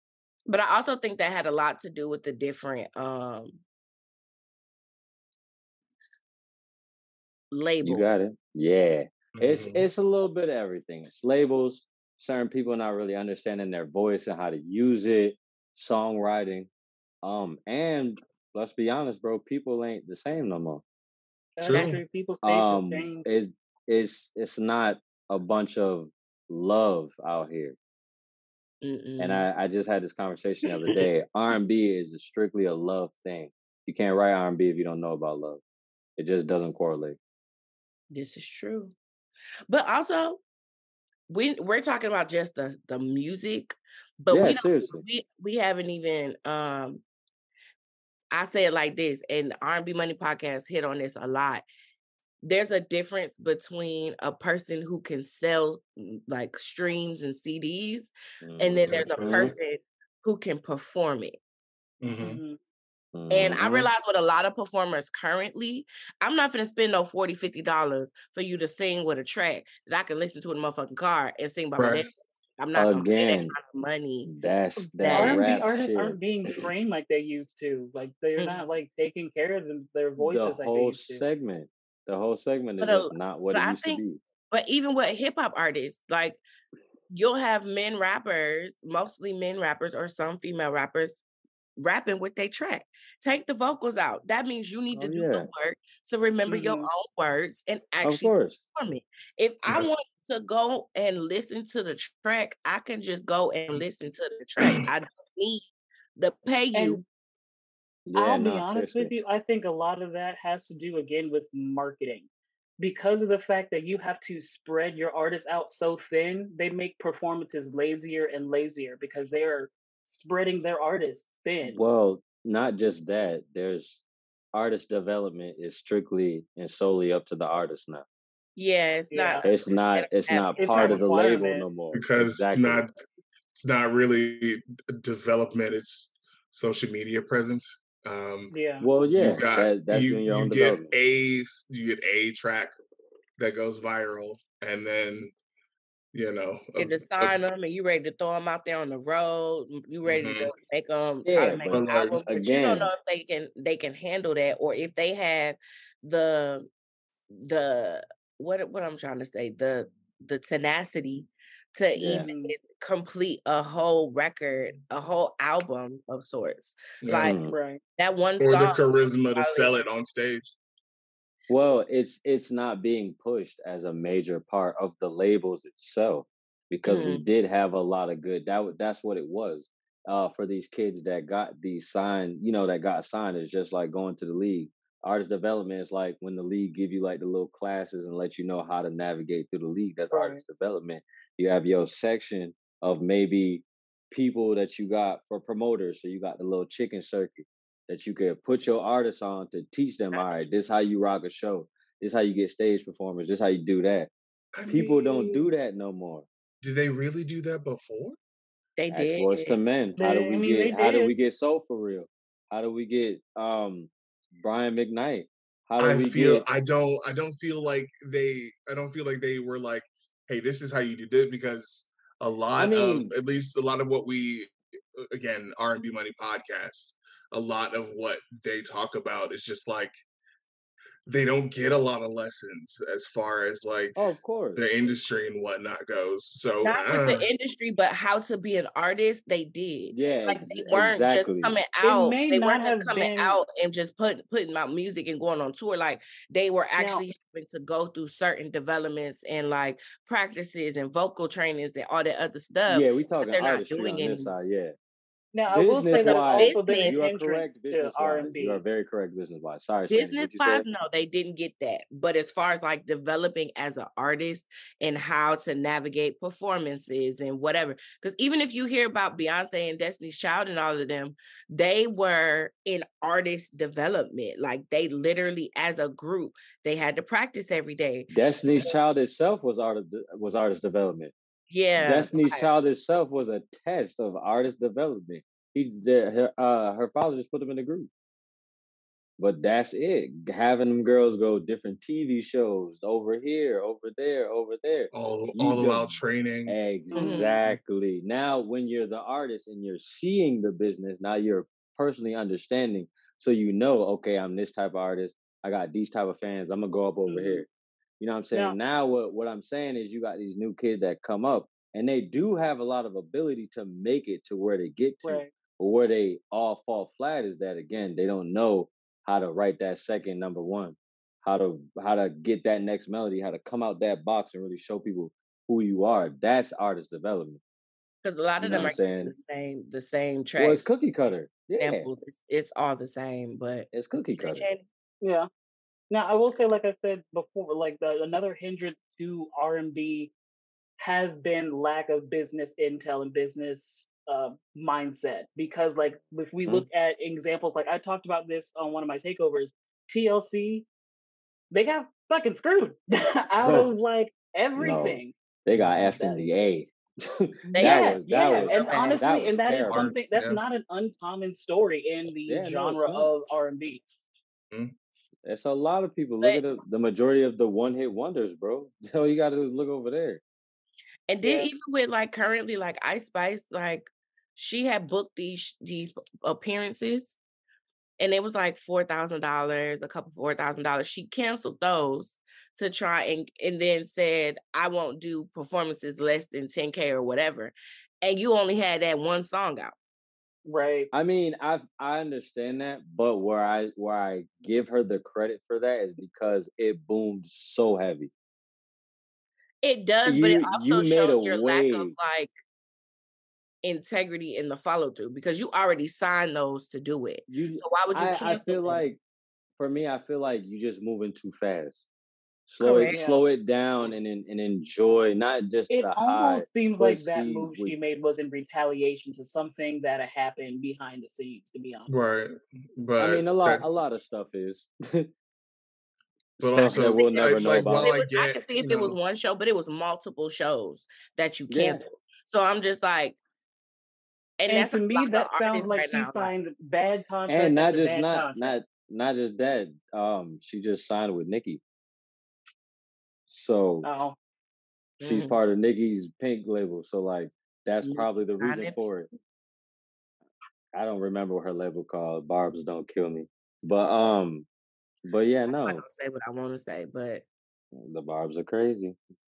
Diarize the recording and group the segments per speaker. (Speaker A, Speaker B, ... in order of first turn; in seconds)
Speaker A: 0.5-3.6, 7.5-8.2, 28.8-29.4, 38.1-38.9, 39.7-40.4, 41.3-47.0, 48.3-51.6, 52.4-61.4, 63.3-74.3, 75.0-75.6, 78.4-78.6, 82.8-86.4, 87.1-91.2, 91.8-107.0, 128.6-131.0, 146.8-156.7, 157.3-167.4, 168.0-169.7, 176.8-177.2, 200.1-200.6, 208.8-209.6, 236.6-254.3, 255.9-257.0, 259.9-278.7, 281.5-282.5, 296.9-297.3, 328.0-330.7, 331.6-334.6, 357.5-359.1, 371.1-377.2, 378.0-389.7, 399.6-402.3, 403.6-408.8, 412.6-413.0, 426.7-433.2, 434.4-436.3, 445.0-445.4, 447.8-448.8, 455.5-457.2
Speaker B: 7.8-16.7, 17.2-20.8, 22.4-27.8, 29.2-35.6, 36.2-37.2, 44.3-45.0, 58.4-59.5, 63.1-63.9, 72.7-73.5, 74.2-76.2, 80.2-84.2, 94.9-95.5, 98.0-98.6, 108.1-109.1, 121.7-124.0, 124.5-128.0, 129.4-132.8, 138.8-140.9, 151.2-152.9, 161.9-162.3, 167.2-167.5, 171.5-204.1, 204.7-206.2, 208.9-216.4, 222.6-223.1, 233.9-234.7, 239.9-241.6, 252.7-254.7, 255.5-260.6, 278.1-281.1, 281.8-287.9, 289.2-307.5, 308.0-327.4, 328.4-329.1, 330.4-331.9, 333.7-334.4, 353.4-353.7, 354.6-359.9, 362.3-363.1, 365.2-370.2, 390.9-398.1, 400.0-401.9, 407.3-409.0, 409.6-411.9, 412.5-417.8, 423.0-425.1, 426.4-427.9, 431.5-431.8, 437.3-441.6, 443.3-443.9, 445.0-449.1, 450.7-454.5, 455.1-455.8, 457.7-459.0
Speaker C: 9.4-9.8, 21.6-22.0, 58.8-59.5, 62.0-62.4, 71.8-72.0, 131.9-133.0, 133.5-138.6, 139.1-142.7, 143.4-145.3, 146.1-147.4, 150.0-150.5, 151.7-152.2, 167.0-167.3, 168.4-170.6, 204.6-205.4, 206.6-208.2, 215.8-229.9, 231.1-234.0, 234.6-237.3, 294.9-296.6, 355.5-355.9, 359.6-360.4, 421.9-423.8, 426.4-429.0
Speaker D: 21.6-23.2, 62.2-62.6, 74.8-81.2, 96.5-96.9, 106.7-107.0, 108.1-121.8, 129.1-129.5, 130.6-131.7, 138.5-138.9, 162.2-162.5, 167.5-167.8, 190.1-190.4, 210.0-211.1, 241.8-243.4, 246.8-247.0, 255.3-258.6, 296.9-297.4, 307.1-307.4, 308.3-308.6, 315.0-315.3, 335.0-335.3, 335.9-340.1, 340.8-350.7, 351.5-355.1, 355.7-356.3, 357.6-363.8, 371.2-371.5, 390.4-390.9, 412.9-413.2, 415.7-421.9, 434.5-438.5, 443.8-444.1